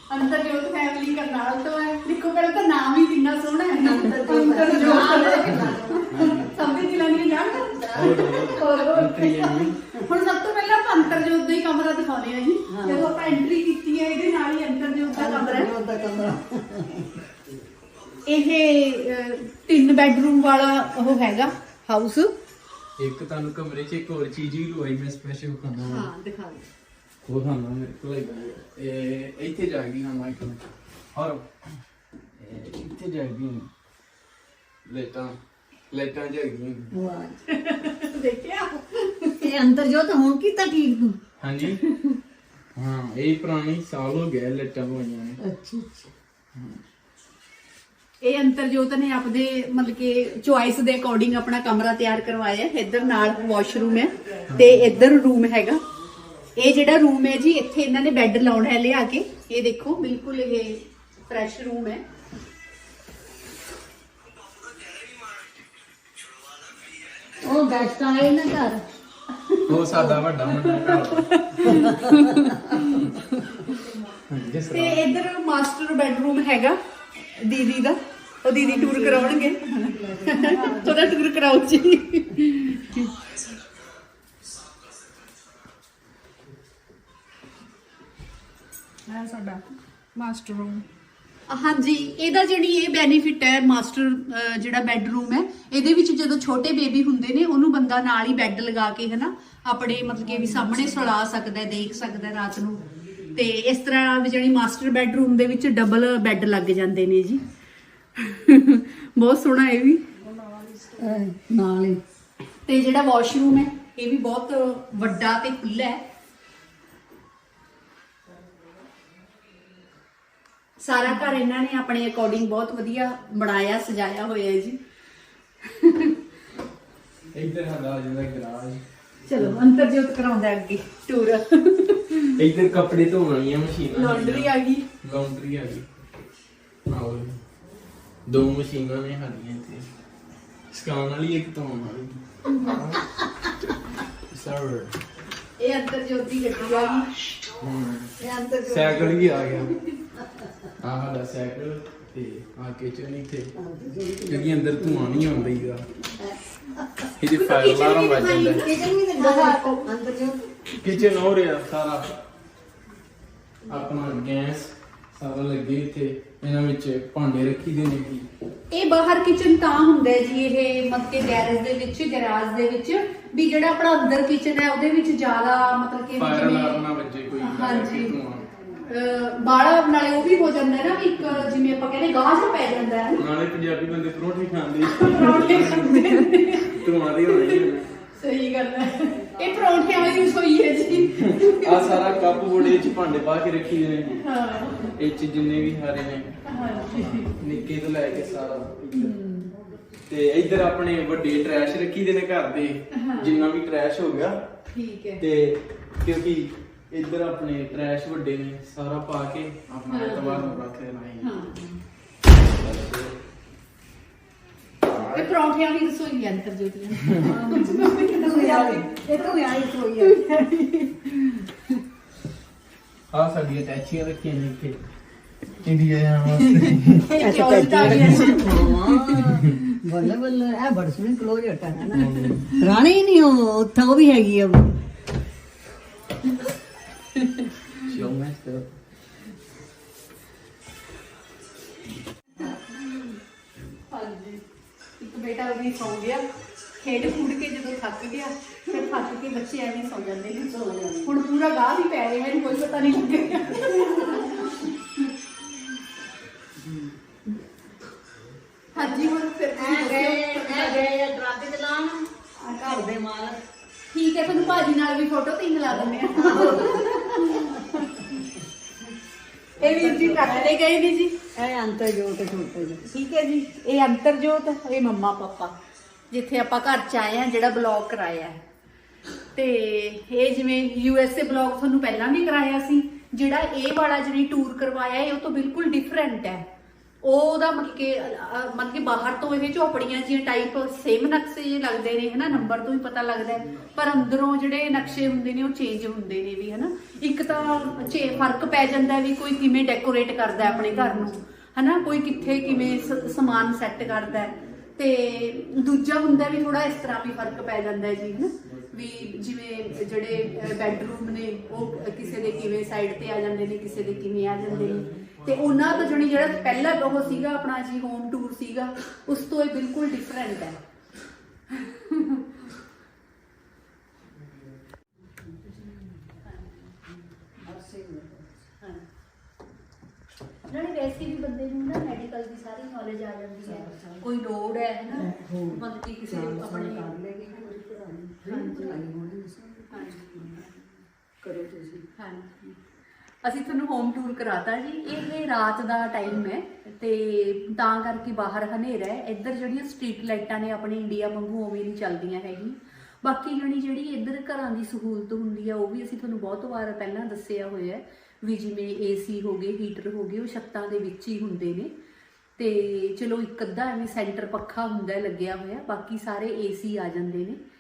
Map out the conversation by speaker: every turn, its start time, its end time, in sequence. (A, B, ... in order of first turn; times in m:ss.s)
0:00.1-0:15.7 A
0:03.7-0:06.7 B
0:06.1-0:06.6 C
0:07.6-0:08.3 B
0:07.9-0:09.8 C
0:12.7-0:13.2 B
0:15.1-0:17.1 B
0:18.2-0:22.3 A
0:23.0-0:26.1 C
0:25.8-0:26.7 A
0:27.2-0:30.6 C
0:31.1-0:31.5 C
0:32.4-0:33.7 C
0:34.9-0:35.4 C
0:35.9-0:36.9 C
0:36.9-0:37.4 B
0:37.5-0:39.5 A
0:39.4-0:41.2 B
0:41.4-0:41.8 C
0:42.8-0:45.4 C
0:45.4-0:46.1 B
0:46.5-0:46.8 C
0:48.2-0:55.8 A
0:54.5-0:54.8 C
0:56.6-1:02.0 A
1:07.4-1:08.8 B
1:09.5-1:13.2 A
1:09.7-1:11.8 C
1:11.7-1:12.5 B
1:14.3-1:15.0 C
1:14.7-1:23.5 A
1:18.6-1:21.1 B
1:29.1-1:30.8 D
1:31.5-1:47.4 A
1:48.2-1:50.1 A
1:50.2-1:51.0 D
1:51.0-1:52.0 B
1:52.6-1:56.0 A
2:00.8-2:04.8 A
2:05.6-2:06.2 A
2:07.3-2:08.8 C
2:09.3-2:12.4 A
2:12.4-2:15.9 C
2:13.9-2:14.9 A
2:16.9-2:17.4 C
2:18.3-2:19.9 C
2:20.7-2:23.1 C
2:24.3-2:25.0 C
2:25.6-2:27.1 A
2:27.6-2:28.1 C
2:28.2-2:30.7 B
2:28.7-2:29.7 C
2:30.8-2:33.5 C
2:33.6-2:35.4 B
2:34.3-2:35.9 C
2:36.0-2:37.1 B
2:37.2-2:38.7 C
2:37.3-2:39.8 A
2:38.6-2:40.6 B
2:40.8-2:42.2 C
2:43.7-2:48.3 C
2:48.7-2:56.9 A
2:56.2-2:58.5 C
2:57.4-2:58.2 A
2:58.7-3:03.2 A
3:03.2-3:07.9 C
3:04.9-3:12.1 A
3:09.4-3:09.9 B
3:10.0-3:10.4 C
3:10.9-3:14.3 C
3:14.2-3:14.9 A
3:14.9-3:19.2 C
3:16.4-3:17.4 A
3:18.9-3:19.5 A
3:20.1-3:24.4 C
3:22.9-3:23.4 A
3:24.7-3:25.2 A
3:25.2-3:31.3 C
3:29.9-3:30.6 A
3:31.2-3:31.8 A
3:32.4-3:33.2 C
3:34.9-3:35.3 C
3:34.9-3:39.5 A
3:37.2-3:40.2 B
3:40.0-3:41.8 A
3:43.1-3:44.8 C
3:45.5-3:47.1 C
3:46.4-3:49.5 A
3:47.2-3:54.8 B
3:47.8-3:48.5 C
3:49.1-3:49.6 C
3:51.9-3:52.6 C
3:52.0-3:52.4 A
3:57.2-3:57.5 A
3:57.7-3:58.7 C
4:02.4-4:03.1 A
4:03.9-4:04.4 A
4:05.0-4:06.2 A
4:06.8-4:15.1 A
4:10.5-4:11.1 B
4:14.1-4:14.4 B
4:18.7-4:20.9 A
4:19.6-4:23.4 B
4:22.4-4:22.8 A
4:23.9-4:28.1 A
4:25.7-4:27.8 B
4:29.6-4:31.2 A
4:29.6-4:30.6 B
4:31.4-4:32.8 B
4:32.9-4:35.6 A
4:36.1-4:38.4 A
4:39.3-4:46.4 A
4:47.0-5:20.6 A
5:02.1-5:03.7 C
5:10.3-5:10.6 C
5:14.5-5:15.4 C
5:15.7-5:17.2 B
5:21.5-5:22.3 A
5:25.4-5:26.9 A
5:27.4-5:28.5 B
5:30.5-5:36.9 A
5:33.4-5:34.1 B
5:34.9-5:40.5 B
5:38.2-5:38.8 A
5:39.7-5:40.6 A
5:41.2-5:41.9 B
5:42.0-5:42.6 A
5:43.2-6:01.7 A
6:02.4-6:07.4 A